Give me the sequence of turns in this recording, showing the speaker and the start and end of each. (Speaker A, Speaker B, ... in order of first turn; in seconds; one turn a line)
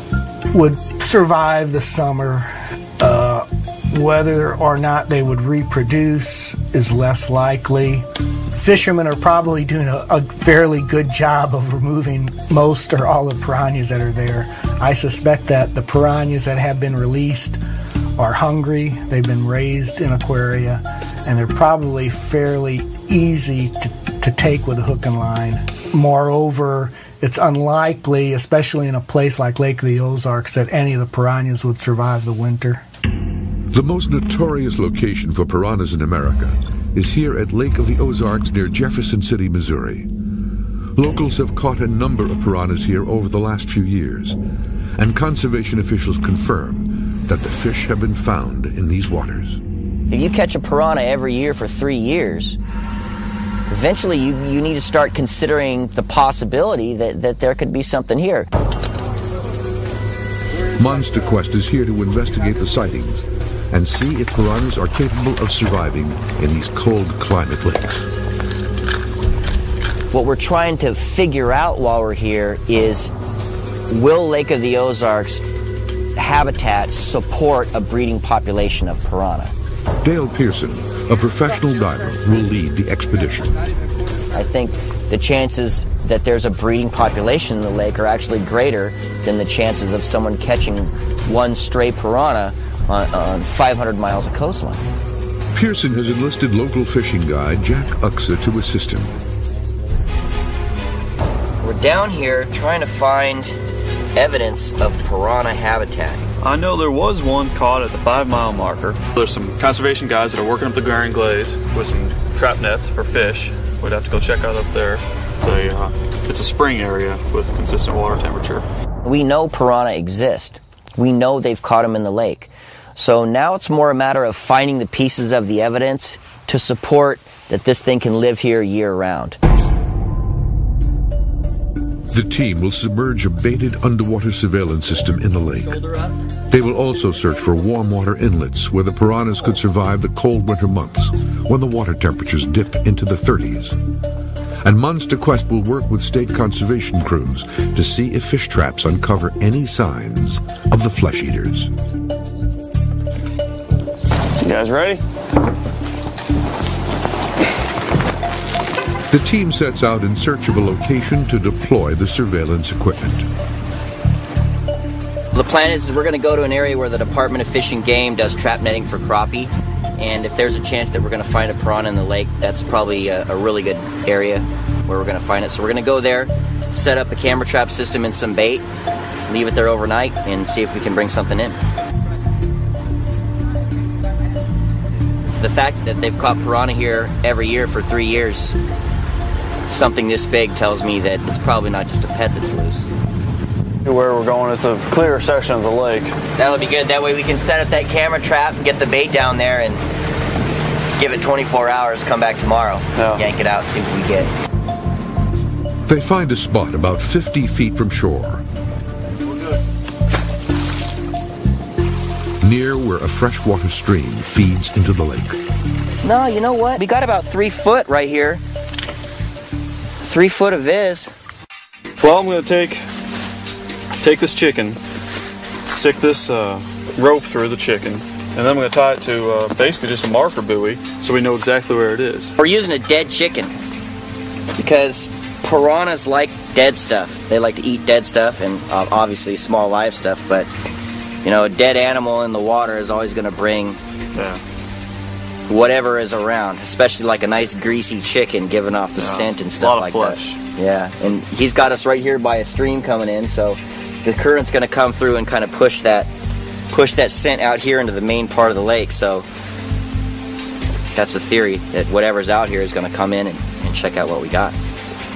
Speaker A: 0.5-17.6
Speaker A: 18.2-32.8
Speaker B: 33.7-40.1
Speaker B: 41.0-44.4
Speaker B: 45.0-49.6
Speaker C: 50.1-52.6
Speaker C: 53.7-58.5
Speaker B: 60.7-68.1
Speaker C: 70.1-73.1
Speaker C: 73.9-75.4
Speaker C: 76.2-79.5
Speaker B: 80.0-83.5
Speaker C: 84.3-94.8
Speaker B: 95.5-99.1
Speaker C: 101.6-103.5
Speaker C: 104.2-106.2
Speaker D: 106.4-118.7
Speaker C: 119.0-129.4
Speaker B: 132.1-135.8
Speaker B: 136.5-143.8
Speaker B: 144.6-151.7
Speaker D: 154.4-155.0
Speaker B: 159.1-163.3
Speaker C: 165.3-178.7
Speaker C: 179.3-181.6
Speaker C: 185.4-188.6
Speaker C: 189.7-192.9
Speaker D: 193.8-196.2
Speaker C: 196.3-199.8
Speaker C: 201.0-204.3
Speaker B: 205.9-208.4
Speaker B: 212.4-215.4
Speaker C: 216.0-218.4
Speaker C: 220.0-221.1
Speaker D: 222.0-222.8
Speaker D: 224.0-224.8
Speaker D: 225.7-232.3
Speaker C: 232.4-233.5
Speaker C: 234.6-240.5
Speaker C: 241.2-243.8
Speaker D: 244.2-244.4
Speaker C: 245.5-256.1
Speaker D: 249.0-250.4
Speaker C: 256.7-259.2
Speaker C: 260.9-264.5